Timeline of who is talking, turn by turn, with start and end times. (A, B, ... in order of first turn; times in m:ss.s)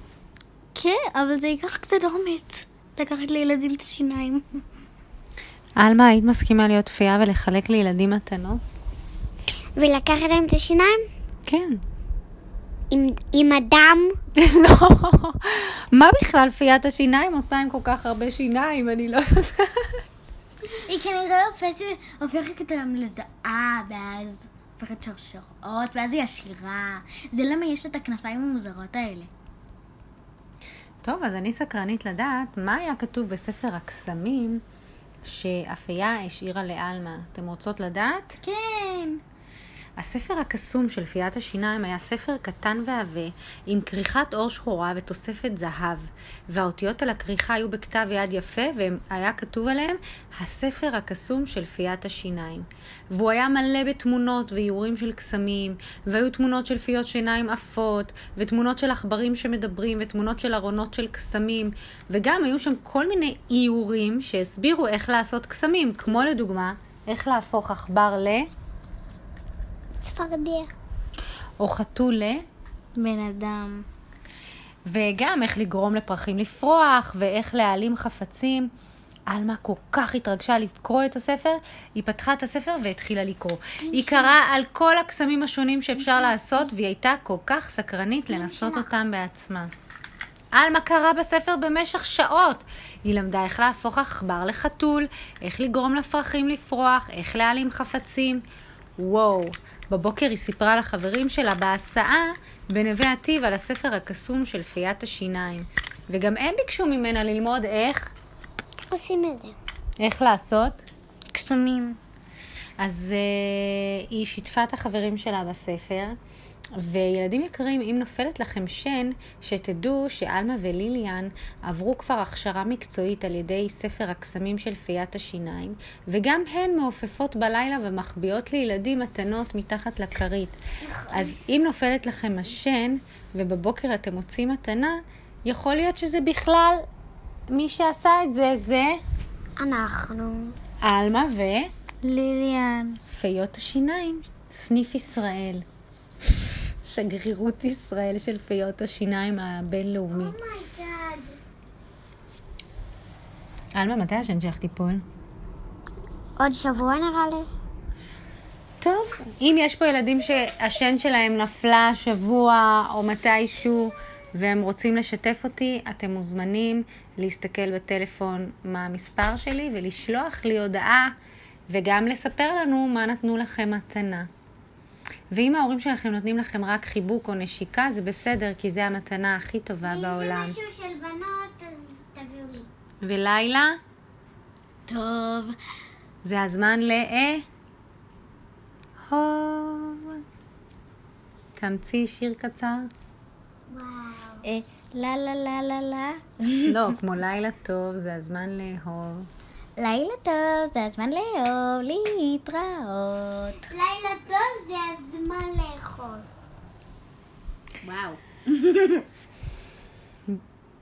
0:00.8-0:04.6 A
0:05.8-0:08.6 B
0:09.8-0:11.0 C
0:11.5-0:11.8 B
0:12.9-0:14.2 C
0:14.4-0:20.0 B
0:20.8-0:29.3 A
0:31.0-0:34.6 B
0:35.2-0:38.4 B
0:38.4-0:39.2 A
0:40.0-1:08.5 B
1:10.0-1:10.7 C
1:11.6-1:12.4 B
1:13.0-1:13.8 A
1:14.9-1:18.7 B
1:19.3-1:29.7 B
1:23.8-1:24.4 C
1:26.1-1:26.5 C
1:28.3-1:28.9 C
1:30.5-1:38.4 B
1:39.0-1:48.1 B
1:48.9-1:49.6 C
1:50.0-1:50.8 B
1:51.3-1:52.0 A
1:52.8-1:56.2 B
1:56.8-2:10.6 B
2:10.8-2:11.4 C
2:11.1-2:16.8 B
2:17.5-2:19.0 B
2:19.6-2:20.6 C
2:20.8-2:21.7 B
2:22.0-2:23.0 A
2:23.1-2:25.6 B
2:26.8-2:30.4 B
2:30.1-2:31.4 C
2:33.8-2:35.0 B
2:36.4-2:37.5 C
2:38.8-2:51.1 B
2:51.7-2:54.3 B
2:55.3-3:00.6 B
2:59.8-3:02.7 C
3:03.0-3:03.8 B
3:04.9-3:05.6 A
3:06.2-3:07.4 B
3:09.1-3:10.2 B
3:11.6-3:12.9 B
3:13.7-3:14.5 C
3:14.4-3:16.8 A
3:16.7-3:19.3 B
3:19.8-3:23.7 A
3:23.6-3:26.3 C
3:27.8-3:29.0 A